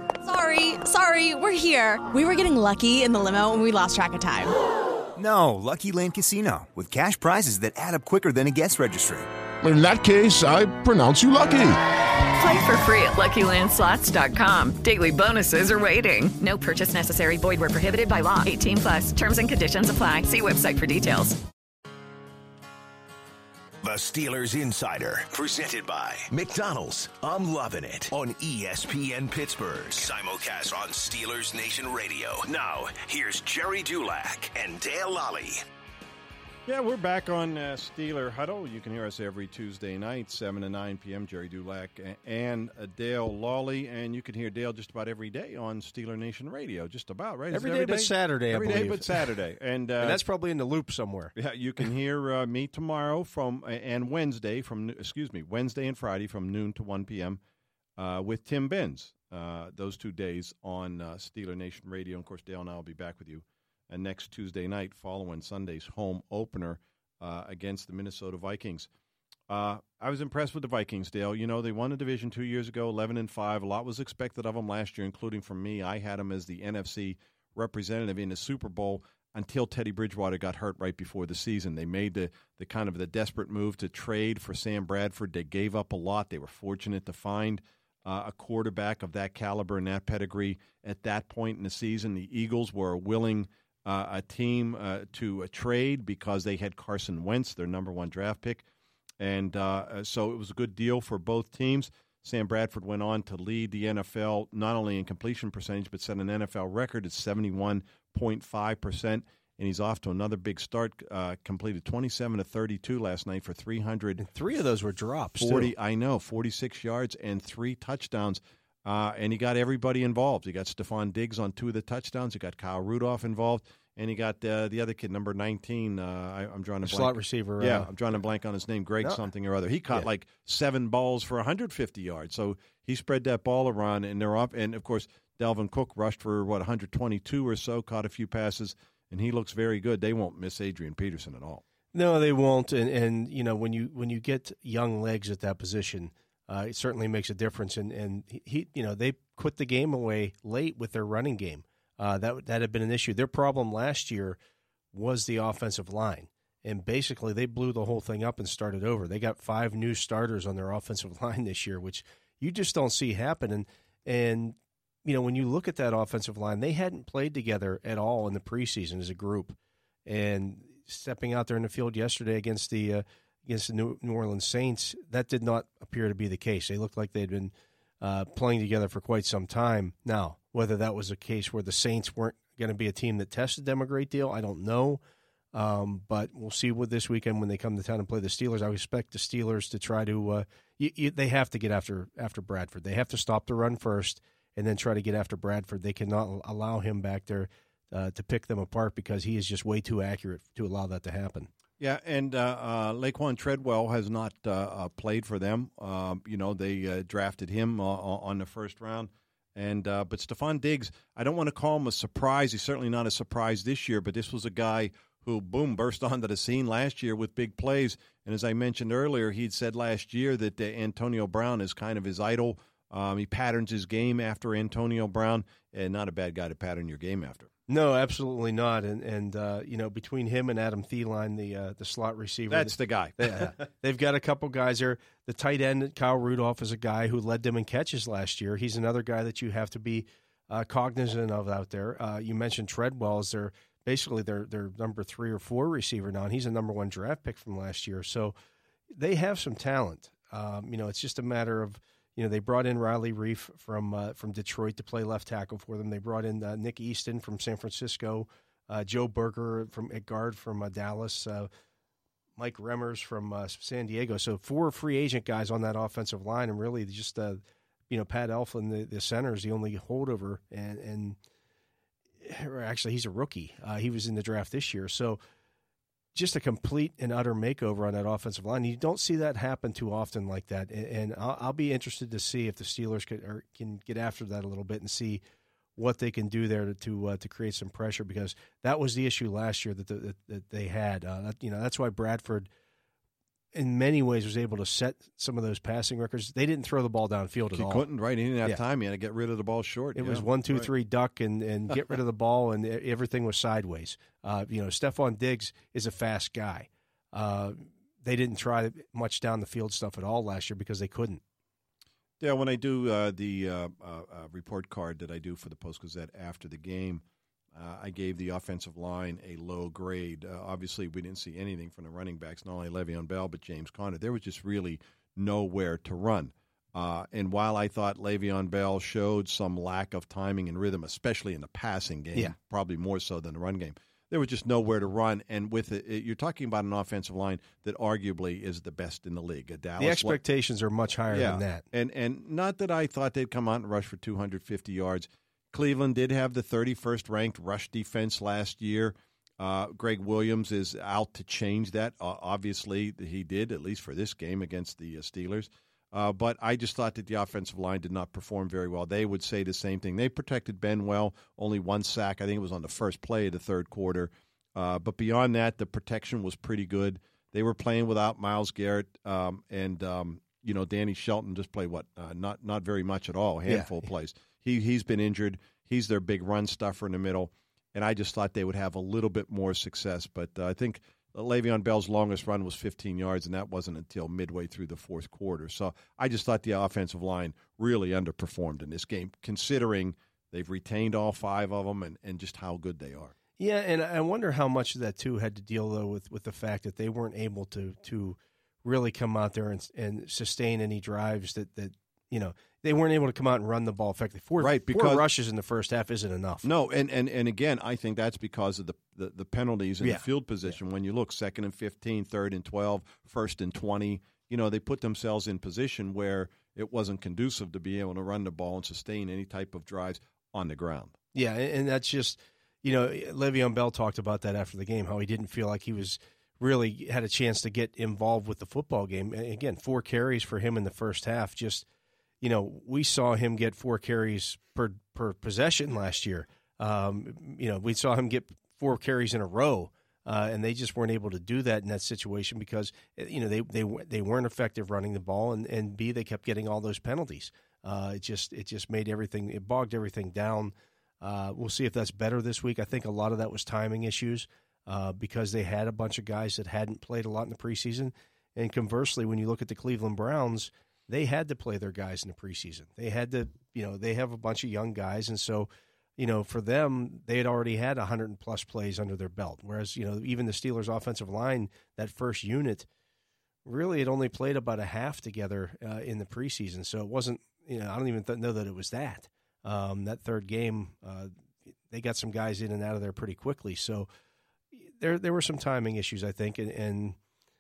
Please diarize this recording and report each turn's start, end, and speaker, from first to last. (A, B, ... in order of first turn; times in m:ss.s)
0:00.2-0:04.5 A
0:05.2-0:09.2 B
0:09.6-0:11.8 C
0:12.3-0:21.4 D
0:23.8-0:35.6 E
0:36.6-0:50.2 F
0:47.5-0:49.3 G
0:50.0-0:51.3 G
0:51.4-0:57.4 F
0:58.0-1:08.9 F
1:09.5-1:38.6 F
1:39.2-1:54.2 F
1:54.2-1:55.7 G
1:55.4-2:21.6 F
2:06.8-2:07.9 G
2:21.9-2:34.4 G
2:34.9-3:05.0 G
3:05.5-3:21.5 G
3:21.8-3:47.5 F
3:47.7-4:08.3 G
3:52.5-3:53.5 F
4:08.9-4:21.5 G
4:22.4-4:31.2 G
4:32.2-4:35.2 G
4:36.1-4:45.2 G
4:45.8-4:52.5 G
4:53.5-4:57.9 G
4:57.5-5:00.7 F
4:59.9-5:11.2 G
5:12.2-5:17.0 F
5:17.5-5:40.2 F
5:39.8-5:41.6 G
5:41.1-6:33.1 F
6:13.4-6:13.9 G
6:33.4-6:46.5 G
6:44.4-6:45.0 F
6:46.4-7:00.9 F
7:01.1-7:11.6 G
7:12.2-7:52.7 G
7:53.4-8:01.1 G
8:01.7-8:03.9 G
8:04.6-8:07.0 G